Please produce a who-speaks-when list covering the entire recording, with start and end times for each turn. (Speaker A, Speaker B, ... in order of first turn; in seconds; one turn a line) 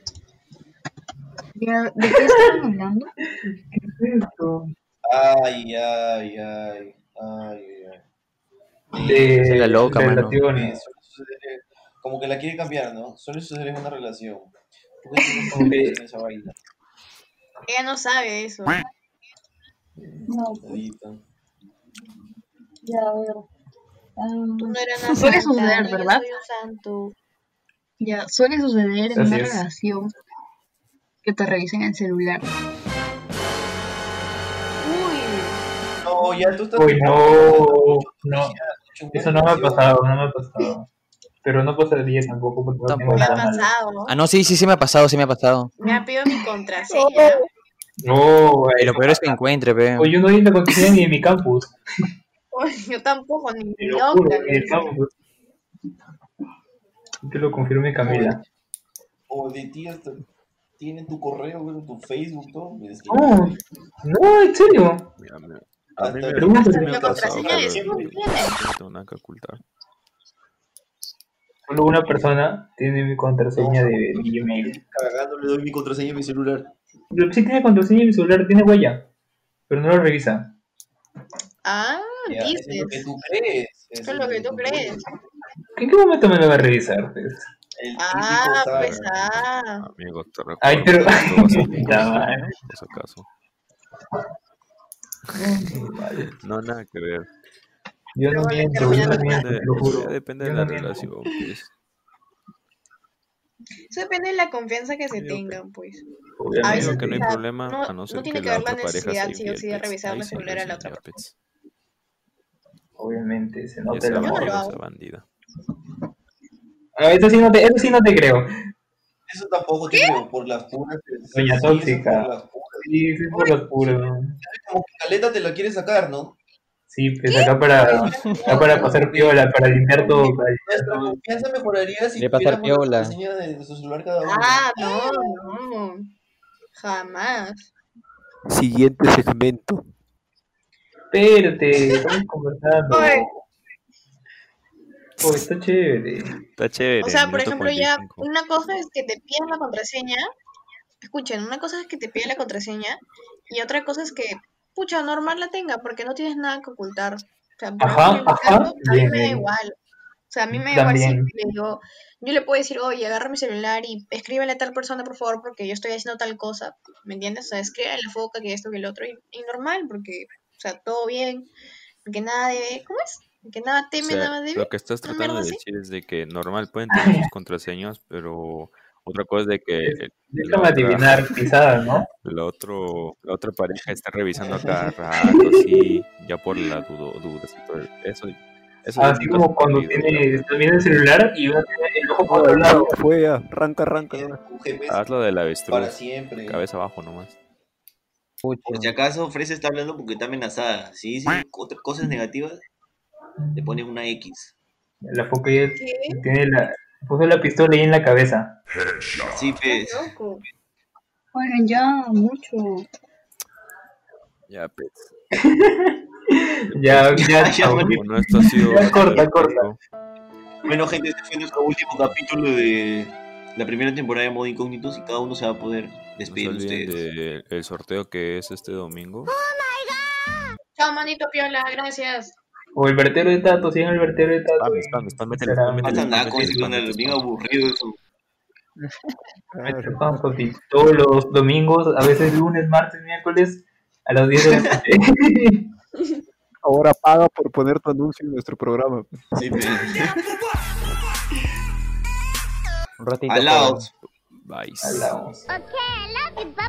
Speaker A: 1.6-3.1
Speaker B: 2.1-2.6
Speaker B: 3.7-4.7
Speaker C: 5.0-8.0
Speaker C: 8.9-9.3
Speaker B: 8.9-10.8
Speaker D: 9.3-10.4
Speaker C: 10.5-16.5
Speaker A: 15.2-15.5
Speaker B: 15.5-16.0
Speaker E: 17.7-18.8
Speaker C: 20.1-21.2
Speaker A: 20.3-20.8
Speaker A: 22.8-23.4
Speaker A: 24.2-26.2
Speaker E: 24.6-27.1
Speaker A: 28.0-30.1
Speaker B: 29.1-29.6
Speaker A: 31.2-32.5
Speaker E: 34.8-35.6
Speaker C: 36.0-39.9
Speaker B: 36.8-38.6
Speaker B: 39.1-40.9
Speaker B: 41.4-43.7
Speaker D: 42.9-43.4
Speaker E: 43.1-44.1
Speaker D: 44.1-45.7
Speaker E: 45.8-47.4
Speaker A: 46.9-47.3
Speaker B: 48.0-49.0
Speaker D: 48.8-50.1
Speaker C: 49.0-49.3
Speaker B: 50.0-51.8
Speaker E: 52.5-54.9
Speaker B: 53.8-55.1
Speaker B: 57.2-58.4
Speaker C: 58.0-58.4
Speaker C: 59.3-60.2
Speaker C: 60.8-63.6
Speaker B: 63.1-65.1
Speaker F: 65.2-69.6
Speaker C: 66.0-68.1
Speaker B: 66.4-67.0
Speaker E: 66.6-68.6
Speaker B: 71.7-74.8
Speaker C: 73.5-76.7
Speaker B: 77.1-79.1
Speaker B: 79.7-80.5
Speaker E: 81.6-83.1
Speaker C: 82.3-85.0
Speaker E: 84.0-85.0
Speaker B: 85.8-87.5
Speaker C: 87.8-89.1
Speaker E: 88.0-89.9
Speaker F: 88.7-93.3
Speaker B: 90.6-92.5
Speaker C: 91.1-92.2
Speaker B: 95.3-96.3
Speaker F: 96.4-97.3
Speaker B: 98.1-101.1
Speaker E: 98.3-99.5
Speaker F: 98.7-101.7
Speaker E: 103.9-106.0
Speaker F: 105.1-105.6
Speaker B: 106.4-107.3
Speaker E: 106.6-111.2
Speaker F: 106.6-111.3
Speaker B: 113.0-114.5
Speaker F: 113.9-115.2
Speaker E: 114.1-114.8
Speaker B: 117.0-118.5
Speaker C: 119.3-122.9
Speaker E: 119.9-120.2
Speaker B: 121.3-122.3
Speaker B: 122.9-124.4
Speaker E: 123.3-123.8
Speaker C: 124.4-126.4
Speaker B: 126.9-131.2
Speaker E: 127.2-129.1
Speaker C: 128.4-129.4
Speaker C: 130.7-134.7
Speaker D: 132.2-133.2
Speaker E: 134.2-136.1
Speaker E: 136.8-137.7
Speaker G: 138.5-139.8
Speaker B: 141.1-143.3
Speaker E: 142.9-143.3
Speaker B: 145.2-146.4
Speaker F: 146.5-148.3
Speaker E: 147.0-150.3
Speaker E: 151.0-159.7
Speaker B: 157.8-159.5
Speaker E: 160.3-171.5
Speaker B: 160.5-161.3
Speaker E: 172.1-175.6
Speaker F: 174.0-181.3
Speaker B: 176.9-177.3
Speaker B: 179.9-182.1
Speaker F: 182.2-190.4
Speaker C: 184.4-184.7
Speaker B: 185.4-185.8
Speaker B: 189.0-192.9
Speaker G: 192.3-194.4
Speaker C: 194.1-195.0
Speaker F: 194.9-197.4
Speaker C: 195.7-196.6
Speaker D: 198.4-198.9
Speaker C: 198.7-202.6
Speaker B: 203.4-203.8
Speaker C: 203.6-204.5
Speaker B: 205.0-208.6
Speaker E: 205.8-206.2
Speaker C: 209.3-210.1
Speaker E: 209.6-210.4
Speaker A: 211.3-212.9
Speaker F: 214.5-215.1
Speaker B: 215.4-219.7
Speaker F: 216.7-219.8
Speaker C: 217.1-218.0
Speaker C: 218.7-219.2
Speaker C: 220.7-227.0
Speaker F: 226.3-229.3
Speaker E: 230.8-232.4
Speaker B: 232.7-236.6
Speaker F: 234.6-237.2
Speaker C: 235.8-238.0
Speaker G: 239.5-240.3
Speaker B: 239.6-245.7
Speaker C: 244.4-244.8
Speaker G: 246.6-249.7
Speaker C: 249.4-250.4
Speaker D: 253.0-253.9
Speaker C: 253.3-253.9
Speaker F: 254.4-255.1
Speaker B: 254.8-255.5